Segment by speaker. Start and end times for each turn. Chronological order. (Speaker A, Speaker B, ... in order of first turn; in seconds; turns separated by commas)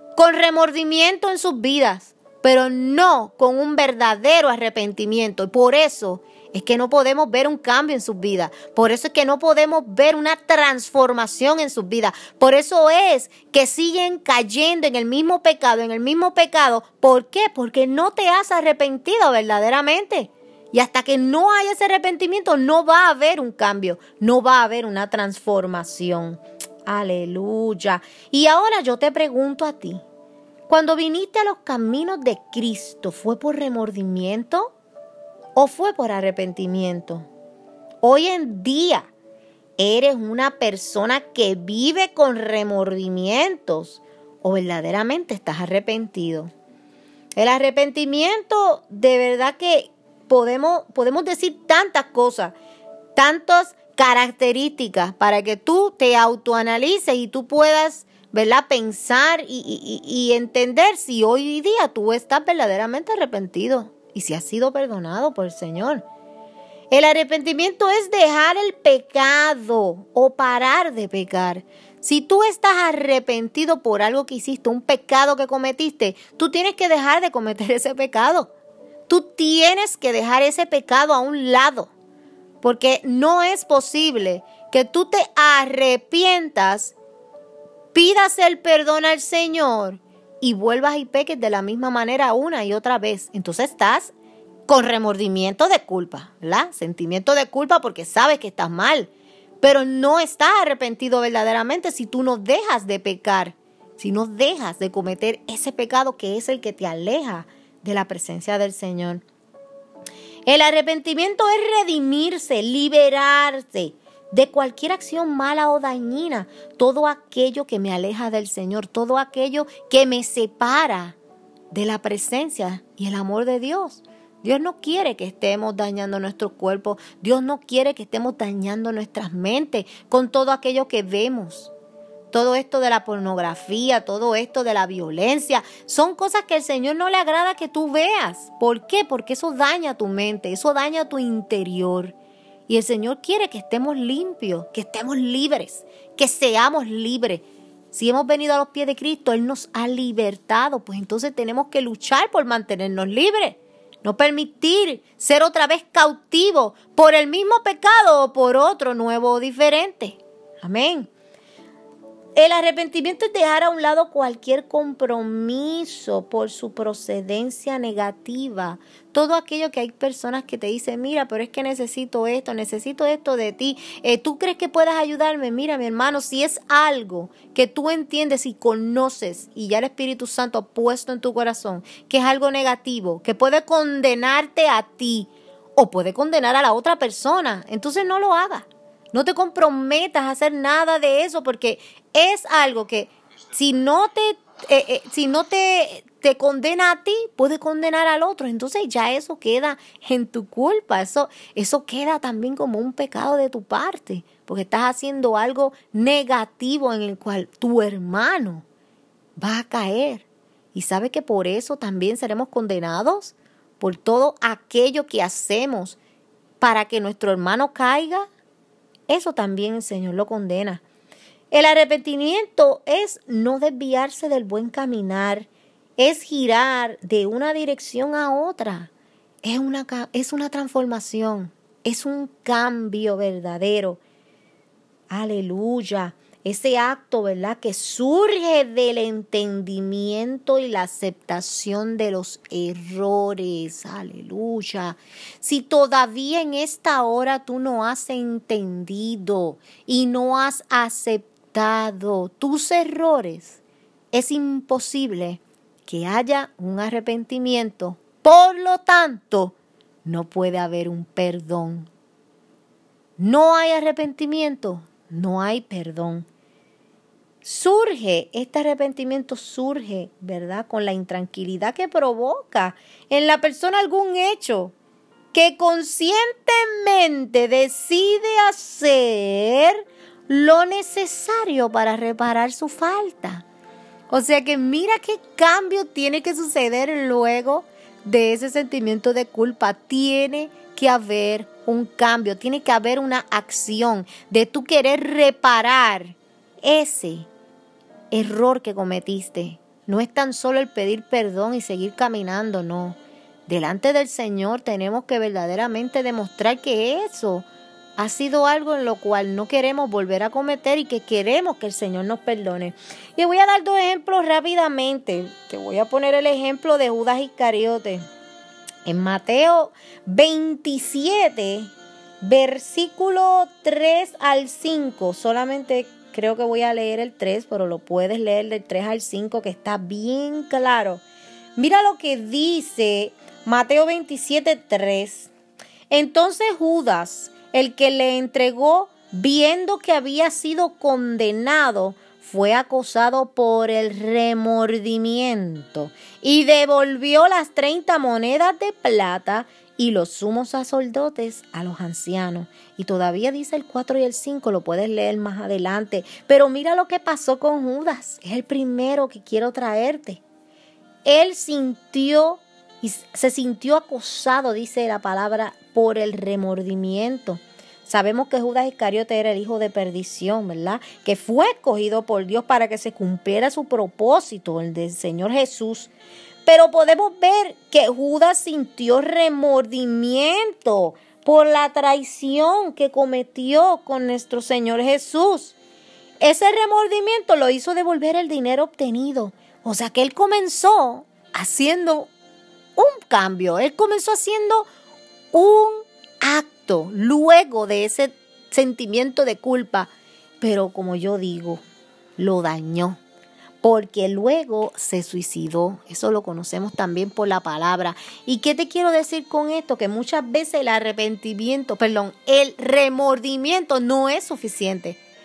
Speaker A: 0.2-30.0, Speaker A: 30.7-34.7, Speaker A: 35.5-37.3, Speaker A: 38.0-39.1, Speaker A: 39.8-46.5, Speaker A: 47.4-52.5, Speaker A: 53.2-66.0, Speaker A: 66.9-78.5, Speaker A: 79.1-81.9, Speaker A: 82.6-87.0, Speaker A: 87.9-94.1, Speaker A: 94.7-99.1, Speaker A: 99.6-109.2, Speaker A: 110.5-121.2, Speaker A: 121.7-131.7, Speaker A: 132.3-142.2, Speaker A: 142.7-161.1, Speaker A: 162.4-208.7, Speaker A: 209.4-216.0, Speaker A: 216.6-218.3, Speaker A: 219.1-220.8, Speaker A: 221.5-228.9, Speaker A: 229.4-234.0, Speaker A: 235.1-253.6, Speaker A: 254.1-261.9, Speaker A: 263.2-266.3, Speaker A: 267.4-274.7, Speaker A: 275.3-283.5, Speaker A: 284.1-297.3, Speaker A: 298.1-318.0, Speaker A: 318.9-331.0, Speaker A: 331.6-335.3, Speaker A: 335.9-360.2, Speaker A: 361.1-375.9, Speaker A: 376.5-385.6, Speaker A: 386.2-392.1, Speaker A: 392.8-394.7, Speaker A: 395.3-401.6, Speaker A: 402.2-403.0, Speaker A: 403.6-415.0